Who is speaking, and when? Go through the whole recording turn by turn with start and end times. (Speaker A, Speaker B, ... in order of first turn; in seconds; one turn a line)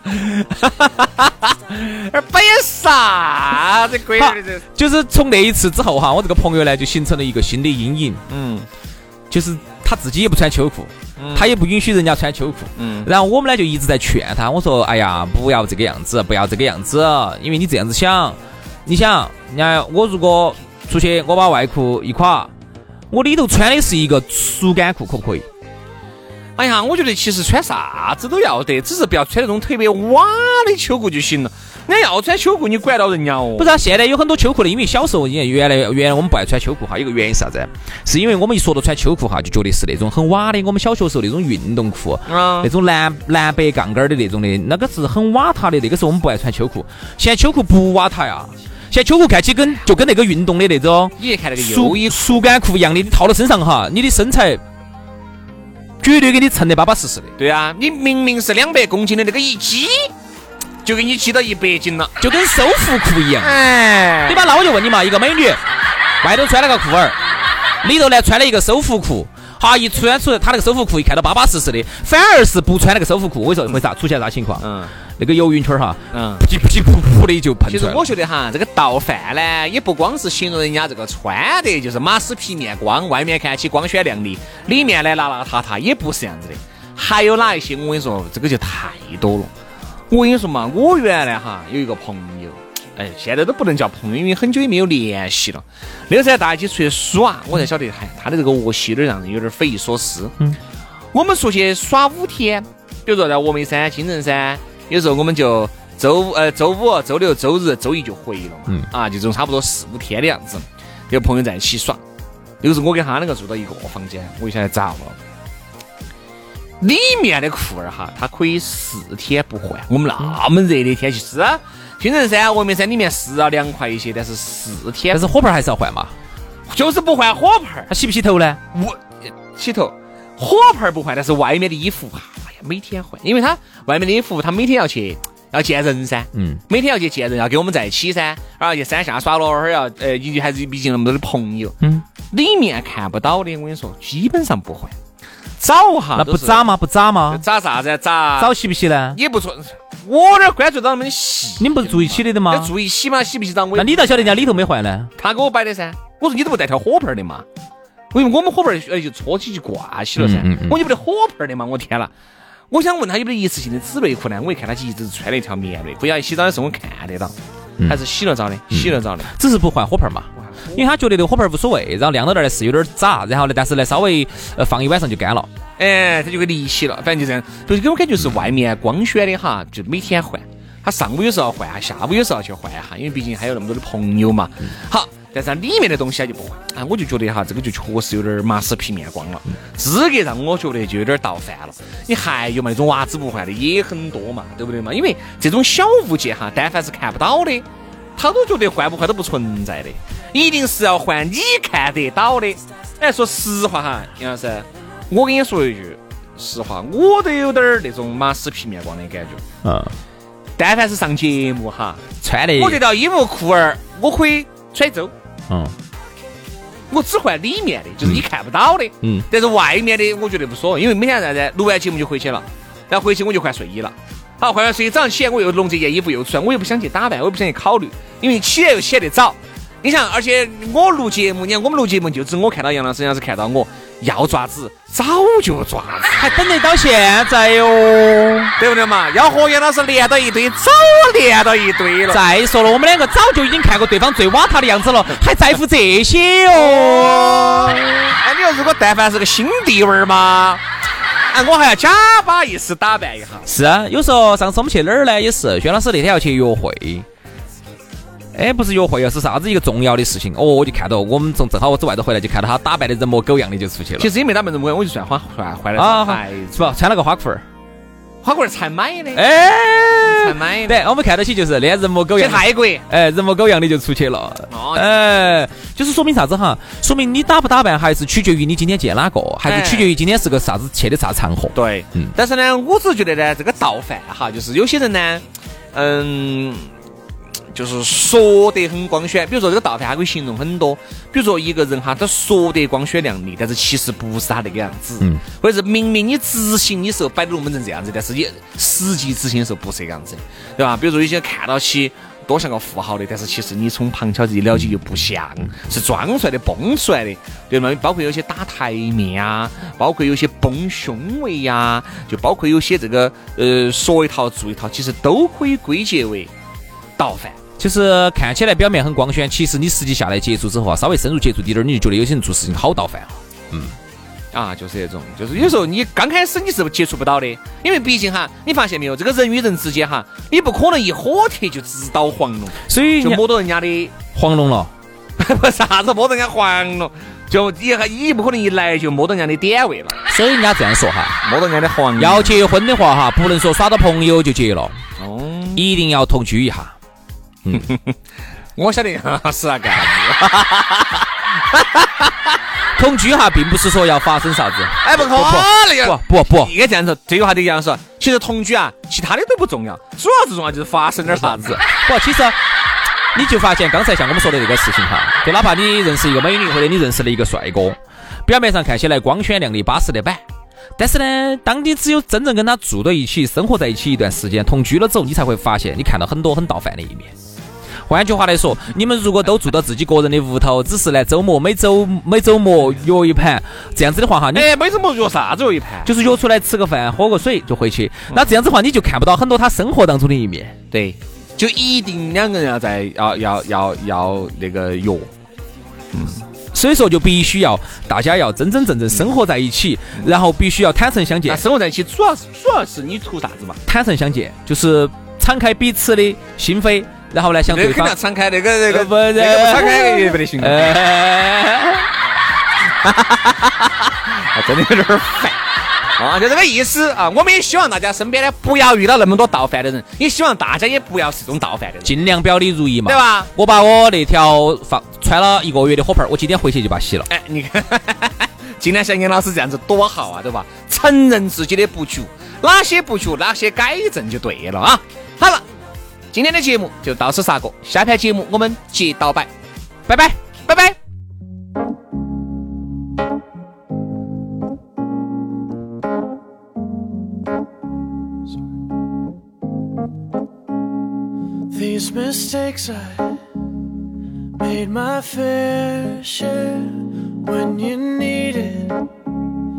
Speaker A: 0.1-4.6
Speaker B: 4.2-8.2
Speaker A: 8.3-8.7
Speaker B: 9.3-22.5
Speaker A: 11.2-11.5
Speaker A: 12.8-13.1
Speaker B: 23.1-25.5
Speaker A: 26.6-33.8
Speaker B: 33.6-54.6
Speaker A: 42.3-42.7
Speaker A: 51.2-52.2
Speaker B: 56.0-57.3
Speaker A: 57.4-60.1
Speaker A: 60.8-62.1
Speaker B: 62.2-63.6
Speaker A: 63.4-64.5
Speaker B: 64.3-65.6
Speaker B: 66.2-67.2
Speaker B: 67.8-74.7
Speaker A: 74.6-74.9
Speaker B: 75.2-78.0
Speaker A: 76.1-76.4
Speaker A: 77.7-89.5
Speaker A: 90.1-100.3
Speaker A: 101.1-112.0
Speaker A: 112.6-115.2
Speaker A: 116.8-125.2
Speaker B: 125.1-126.1
Speaker A: 126.7-127.9
Speaker B: 127.9-128.6
Speaker A: 128.7-141.8
Speaker B: 136.3-136.6
Speaker A: 142.3-144.9
Speaker A: 145.6-146.7
Speaker B: 146.2-147.4
Speaker A: 147.3-148.6
Speaker B: 148.4-149.2
Speaker A: 149.1-154.5
Speaker B: 151.6-152.7
Speaker B: 153.8-155.1
Speaker A: 155.2-157.5
Speaker A: 158.1-162.1
Speaker B: 160.2-160.8
Speaker A: 162.7-167.3
Speaker A: 167.8-169.3
Speaker B: 168.7-175.5
Speaker A: 175.8-197.7
Speaker A: 198.2-209.4
Speaker B: 209.6-209.9
Speaker A: 210.6-212.0
Speaker B: 212.2-212.8
Speaker A: 212.6-215.1
Speaker B: 215.5-215.8
Speaker A: 216.9-236.4
Speaker B: 236.2-238.5
Speaker A: 238.6-242.2
Speaker B: 242.1-247.9
Speaker A: 246.5-250.6
Speaker A: 251.3-253.5
Speaker B: 253.5-257.1
Speaker B: 258.3-264.1
Speaker A: 264.0-266.7
Speaker B: 265.8-267.4
Speaker A: 268.2-269.2
Speaker B: 269.1-282.1
Speaker A: 269.9-270.8
Speaker A: 272.2-272.9
Speaker A: 274.5-274.9
Speaker A: 279.5-279.9
Speaker A: 281.5-286.7
Speaker A: 287.5-316.3
Speaker A: 317.0-317.4
Speaker B: 317.6-323.8
Speaker A: 324.3-334.0
Speaker B: 332.7-333.2
Speaker B: 334.1-334.7
Speaker A: 335.2-340.0
Speaker B: 340.1-341.2
Speaker A: 341.2-342.4
Speaker B: 342.0-344.8
Speaker A: 345.0-345.6
Speaker B: 345.6-346.8
Speaker A: 347.5-347.9
Speaker A: 348.6-352.1
Speaker B: 352.8-356.5
Speaker A: 354.8-361.6
Speaker B: 361.1-362.4
Speaker B: 363.1-370.2
Speaker B: 370.8-377.1
Speaker B: 377.9-384.5
Speaker A: 384.3-385.9
Speaker B: 385.9-390.6
Speaker A: 388.1-388.4
Speaker A: 390.7-395.1
Speaker A: 395.9-396.2
Speaker B: 396.5-401.4
Speaker A: 398.9-399.2
Speaker A: 401.3-403.6
Speaker B: 403.6-407.9
Speaker A: 407.5-410.8
Speaker B: 408.7-411.9
Speaker A: 412.9-415.4
Speaker A: 416.0-421.9
Speaker B: 421.8-427.1
Speaker A: 422.8-423.3
Speaker A: 427.1-435.4
Speaker A: 436.1-439.3
Speaker B: 439.9-440.2
Speaker A: 440.5-440.7
Speaker C: 451.5-453.1
Speaker C: 454.4-458.8